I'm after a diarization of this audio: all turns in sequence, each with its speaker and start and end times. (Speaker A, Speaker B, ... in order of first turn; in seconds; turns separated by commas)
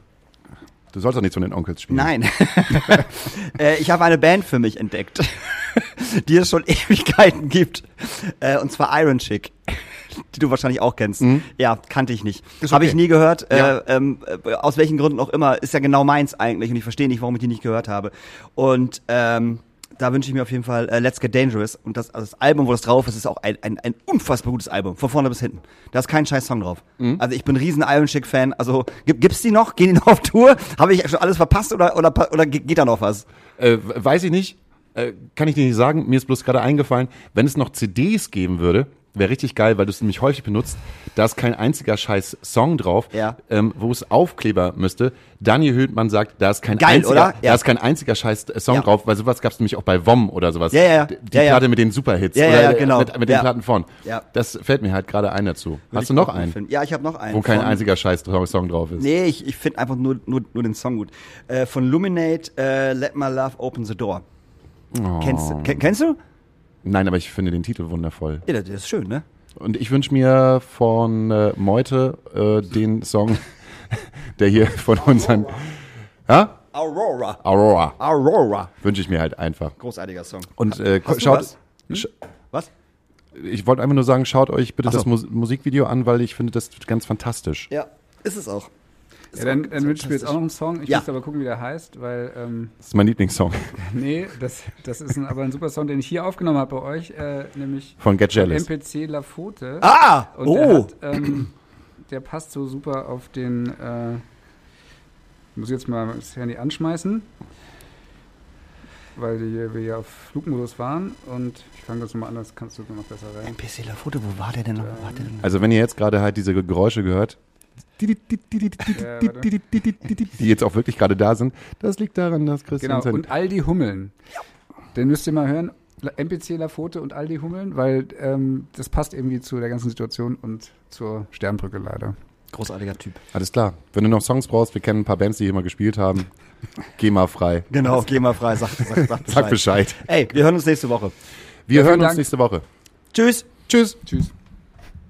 Speaker A: 0.9-2.1, Speaker B: 1.9-33.3, Speaker A: 11.2-11.4, Speaker A: 12.6-13.0, Speaker A: 13.5-13.8, Speaker A: 33.6-56.5, Speaker B: 46.8-47.6, Speaker B: 50.7-51.6, Speaker B: 52.3-53.5, Speaker B: 55.9-57.8, Speaker A: 57.3-59.1, Speaker B: 59.0-64.2, Speaker A: 64.9-65.9, Speaker B: 65.2-66.2, Speaker A: 66.8-68.5, Speaker B: 68.5-69.2, Speaker A: 69.6-75.7, Speaker B: 75.0-75.6, Speaker A: 76.3-76.6, Speaker B: 76.7-77.4, Speaker A: 77.4-78.0, Speaker B: 78.0-78.7, Speaker A: 78.8-79.7, Speaker B: 79.8-81.5, Speaker A: 80.6-82.1, Speaker A: 83.3-87.7, Speaker B: 87.7-88.7, Speaker C: 89.3-92.8, Speaker B: 89.3-91.0, Speaker A: 92.8-93.8, Speaker C: 93.8-101.5, Speaker A: 98.0-98.7, Speaker B: 99.8-101.4, Speaker C: 102.1-104.2, Speaker C: 105.5-107.3, Speaker C: 109.2-113.5, Speaker B: 113.4-115.4, Speaker C: 114.8-115.4, Speaker A: 115.4-117.4, Speaker A: 118.0-123.2, Speaker C: 118.9-119.5, Speaker C: 122.8-124.1, Speaker C: 124.9-132.2, Speaker B: 132.5-133.2, Speaker A: 133.3-136.3, Speaker A: 137.0-137.9, Speaker B: 137.7-141.1, Speaker A: 138.9-140.1, Speaker A: 141.7-142.6, Speaker C: 141.7-142.2, Speaker B: 143.1-143.5, Speaker A: 143.7-144.0, Speaker C: 144.1-144.3